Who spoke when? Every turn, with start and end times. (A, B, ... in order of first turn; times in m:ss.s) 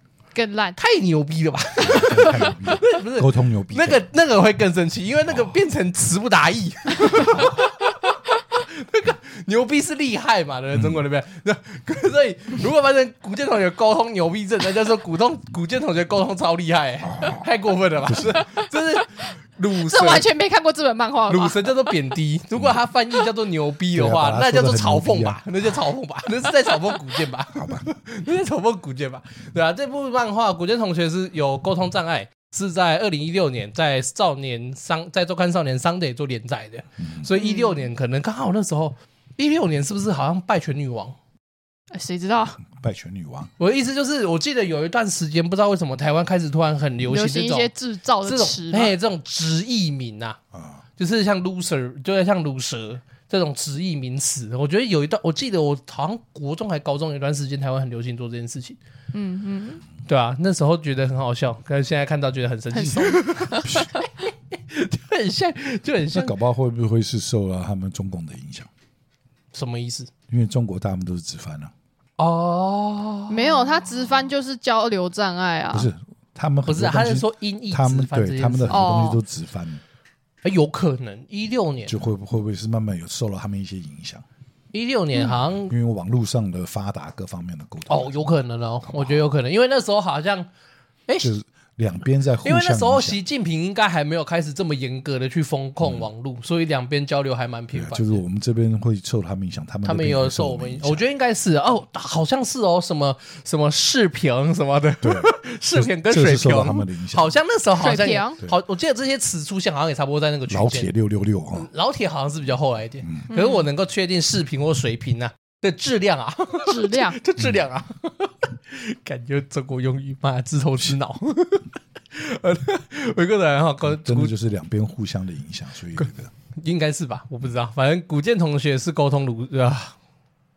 0:00.3-0:00.8 A
0:00.8-0:20.3 B
0:01.8-0:04.0 C
0:05.3-0:05.5 C
0:10.7-0:11.0 C
0:17.1-0:17.4 C
0:18.0-0:18.4 C
0:19.8-0:21.7 A
0:21.3-0:41.2 B
0:23.9-0:25.4 C
0:27.5-0:27.9 C
0:37.3-0:37.8 A
0:41.9-0:42.6 A
0:42.6-0:43.5 C
0:43.6-0:47.7 B
0:47.1-0:48.9 A
0:48.2-0:50.4 B
0:50.5-0:50.8 C
0:51.0-0:58.8 B
0:59.1-0:59.8 A
1:00.0-1:06.3 B
1:02.7-1:04.0 A
1:06.1-1:08.7 C
1:09.5-1:10.1 B
1:10.3-1:11.7 C
1:12.2-1:13.9 B
1:13.3-1:15.9 A
1:15.7-1:19.8 C
1:16.6-1:19.0 B
1:18.7-1:19.2 A
1:20.4-1:22.0 B
1:21.9-1:24.2 C
1:24.7-1:25.7 B
1:25.6-1:29.2 C
1:27.9-1:30.5 B
1:31.2-1:33.2 C
1:32.4-1:38.2 B
1:35.8-1:36.1 C
1:37.7-1:41.0 C
1:39.8-1:50.9 B
1:45.0-1:47.4 C
1:47.8-1:48.4 A
1:50.5-1:51.7 C
1:51.5-2:04.3 B
1:53.3-1:53.6 A
1:56.6-1:57.2 A
2:03.8-2:06.3 C
2:06.0-2:09.9 B